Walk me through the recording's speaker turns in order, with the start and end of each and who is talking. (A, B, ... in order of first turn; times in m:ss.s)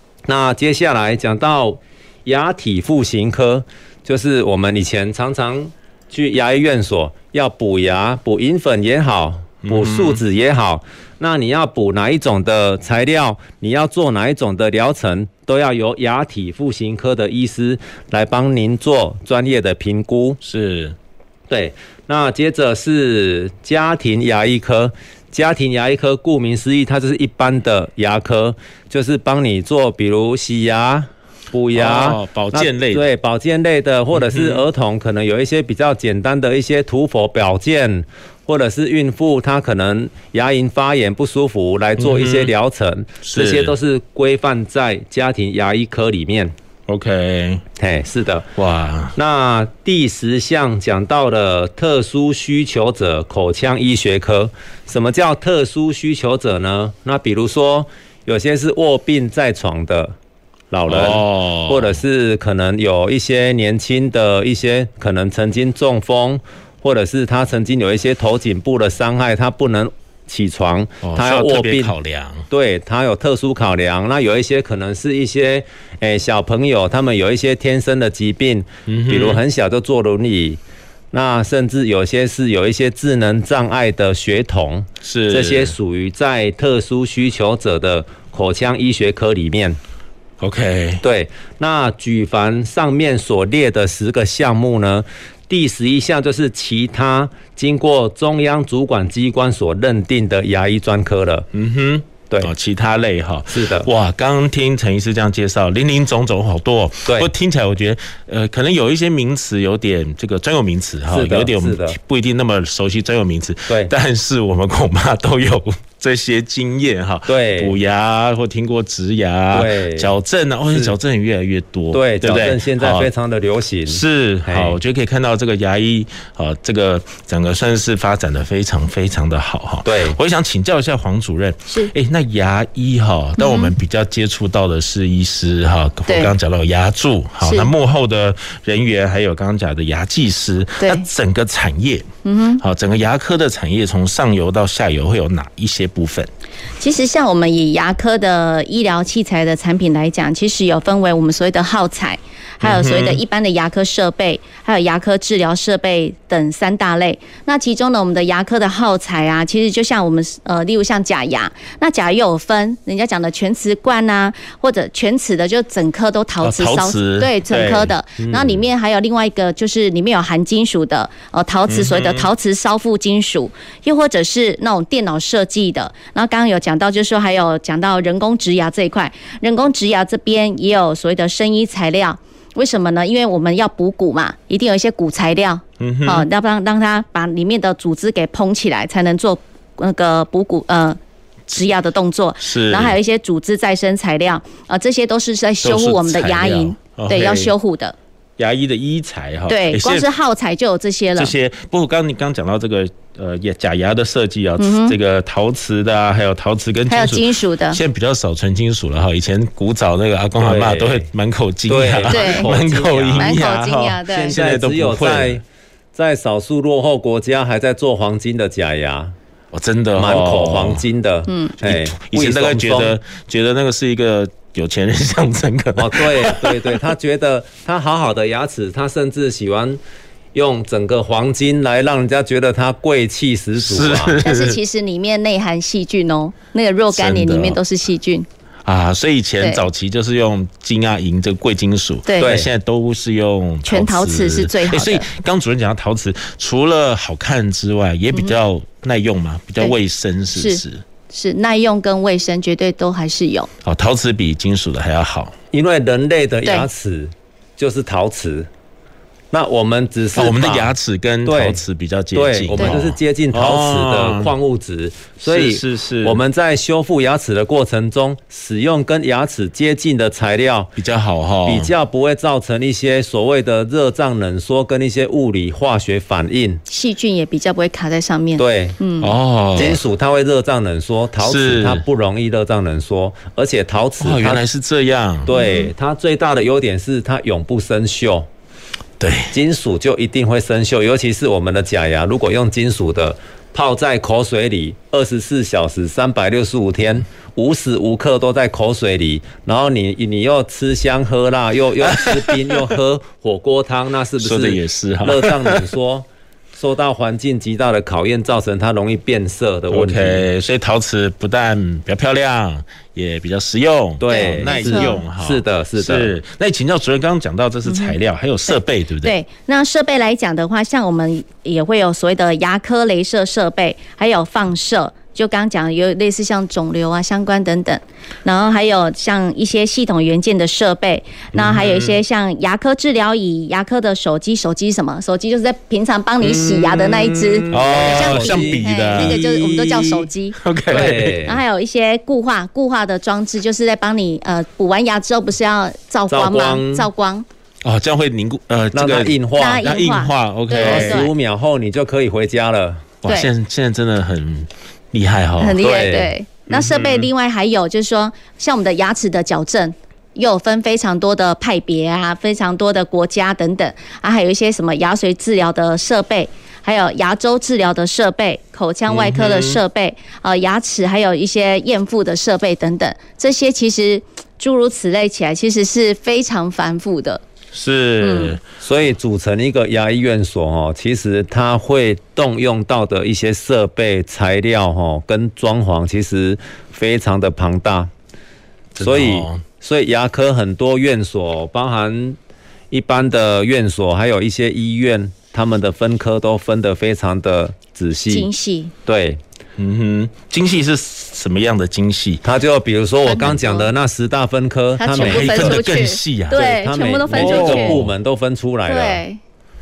0:00.3-0:20.4 A
0:09.6-0:10.2 B
0:20.4-0:21.0 B
0:21.5-0:46.5 A
0:31.7-0:33.1 B
0:34.1-0:34.6 B
0:42.0-0:42.5 B
0:43.2-0:43.7 B
0:46.9-0:47.6 B
0:47.8-0:48.5 A
0:48.6-0:49.2 B
0:49.1-1:00.1 A
1:00.7-1:11.9 A
1:00.9-1:02.0 B
1:11.0-1:12.4 B
1:12.5-1:20.6 A
1:18.9-1:19.4 B
1:21.1-1:29.8 A
1:25.0-1:25.7 B
1:30.4-1:31.0 B
1:31.0-1:41.5 A
1:41.5-2:03.1 B
1:43.5-1:43.9 A
1:51.1-1:52.0 A
1:57.3-1:57.7 A
1:59.5-2:00.1 A
2:00.7-2:00.9 A
2:01.9-2:04.8 A
2:03.9-2:22.1 B
2:09.8-2:10.2 A
2:13.4-2:13.7 C
2:16.1-2:16.3 C
2:17.4-2:17.7 C
2:22.2-2:22.6 C
2:22.6-2:26.3 B
2:26.8-3:11.0 C
2:32.6-2:33.2 B
2:46.4-2:47.9 B
2:48.2-2:48.6 A
2:51.7-2:52.3 B
3:05.8-3:06.3 B
3:11.5-3:17.9 C
3:12.4-3:13.0 B
3:15.6-3:17.5 B
3:18.4-3:20.1 B
3:19.5-3:21.3 C
3:21.2-3:35.4 B
3:24.6-3:25.0 C
3:26.9-3:27.8 C
3:30.4-3:31.1 A
3:31.7-3:33.4 A
3:32.1-3:32.5 C
3:33.2-3:34.3 C
3:34.1-3:35.4 A
3:35.9-3:39.1 A
3:39.5-3:40.8 B
3:40.0-3:42.9 A
3:41.3-3:41.6 C
3:41.6-3:46.8 B
3:45.8-3:49.8 A
3:50.3-3:54.2 A
3:53.6-3:54.6 B
3:54.2-3:58.2 C
3:56.9-3:57.6 B
3:58.6-4:10.8 B
4:02.0-4:02.3 C
4:02.2-4:02.5 A
4:03.6-4:05.0 C
4:10.3-4:13.5 C
4:13.6-4:15.3 B
4:15.5-4:18.5 A
4:19.3-4:20.7 A
4:20.1-4:24.3 B
4:21.2-4:21.6 A
4:22.1-4:30.7 A
4:25.2-4:26.2 B
4:30.8-4:31.7 B
4:31.4-4:36.6 A
4:36.7-4:39.8 C
4:38.4-4:38.8 A
4:39.0-4:39.8 B
4:39.5-4:44.4 A
4:41.2-4:41.8 B
4:44.0-4:45.3 B
4:45.2-4:48.3 A
4:45.3-4:45.7 C
4:49.0-4:49.3 B
4:49.3-5:10.3 A
5:01.8-5:02.7 B
5:04.2-5:05.6 B
5:09.7-5:19.1 B
5:14.0-5:16.1 A
5:14.1-5:15.0 C
5:17.6-5:17.9 C
5:18.5-5:47.2 C
5:31.3-5:32.0 B
5:36.2-5:40.0 A
5:37.5-5:39.3 B
5:40.4-5:41.2 B
5:40.7-5:41.4 A
5:46.1-5:46.9 A
5:47.6-5:51.1 B
5:48.7-5:49.7 A
5:49.4-5:51.1 C
5:50.6-5:52.9 A
5:53.0-5:55.6 B
5:55.4-6:17.2 C
5:55.6-5:56.1 A
5:56.5-5:57.1 B
6:08.9-6:09.6 B
6:17.5-6:18.4 B
6:18.0-6:18.4 C
6:18.6-6:27.9 A
6:28.7-6:29.4 B
6:28.8-6:32.2 A
6:32.7-6:38.3 A
6:38.1-6:38.7 C
6:38.8-6:39.2 A
6:39.6-6:42.2 B
6:42.2-6:45.6 A
6:43.0-6:43.7 C
6:44.8-6:47.8 C
6:44.9-6:47.9 B
6:46.3-6:49.0 A
6:48.7-6:49.2 C